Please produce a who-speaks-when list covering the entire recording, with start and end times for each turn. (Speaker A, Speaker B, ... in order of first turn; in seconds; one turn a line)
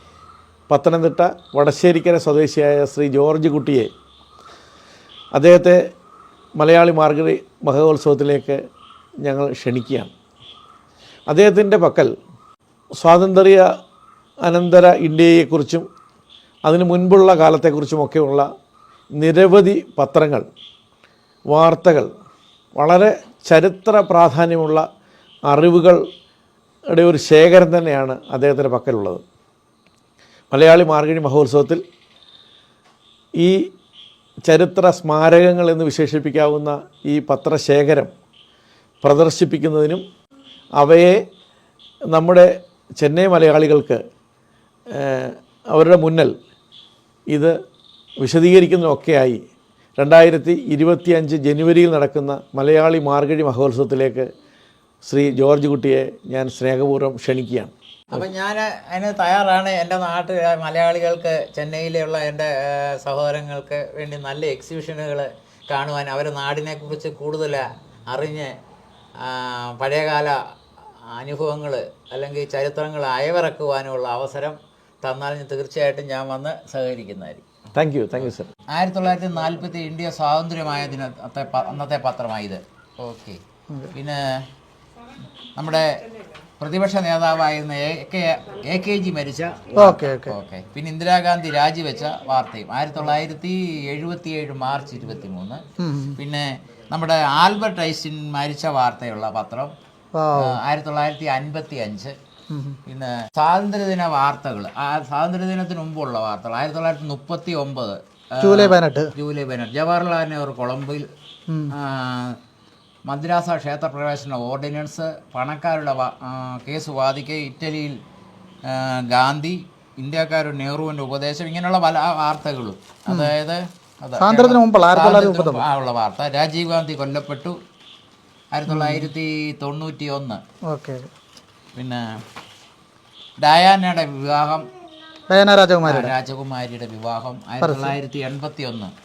Speaker A: 0.7-3.9
Speaker A: 5.3-5.8
Speaker A: 6.6-8.6
Speaker A: 9.2-10.1
Speaker A: 11.3-12.1
Speaker A: 13.0-13.7
Speaker A: 14.4-15.9
Speaker A: 16.6-18.5
Speaker A: 19.2-20.5
Speaker A: 21.5-22.1
Speaker A: 22.8-24.8
Speaker A: 25.5-26.0
Speaker A: 26.9-29.2
Speaker A: 30.5-31.8
Speaker A: 33.4-33.7
Speaker A: 34.5-38.1
Speaker A: 39.0-40.0
Speaker A: 40.8-41.2
Speaker A: 42.1-44.0
Speaker A: 44.9-46.3
Speaker A: 48.2-49.4
Speaker A: 50.0-54.3
Speaker A: 55.0-57.7
Speaker B: 58.1-68.5
Speaker B: 69.2-70.4
Speaker B: 71.1-77.5
Speaker A: 77.7-78.5
Speaker B: 78.2-83.4
Speaker B: 83.9-84.2
Speaker B: 85.5-86.0
Speaker B: 86.6-95.6
Speaker C: 89.8-90.4
Speaker C: 95.8-96.2
Speaker B: 96.1-99.7
Speaker C: 100.1-100.6
Speaker B: 100.3-102.1
Speaker C: 102.5-102.8
Speaker B: 102.9-111.1
Speaker C: 108.4-109.1
Speaker C: 111.5-111.7
Speaker B: 111.7-112.4
Speaker B: 113.1-118.0
Speaker B: 118.7-127.5
Speaker C: 124.2-125.6
Speaker B: 128.5-130.4
Speaker C: 128.7-129.1
Speaker C: 130.7-131.1
Speaker B: 131.7-132.0
Speaker B: 133.4-134.7
Speaker C: 135.3-136.1
Speaker B: 135.8-138.9
Speaker C: 137.6-137.9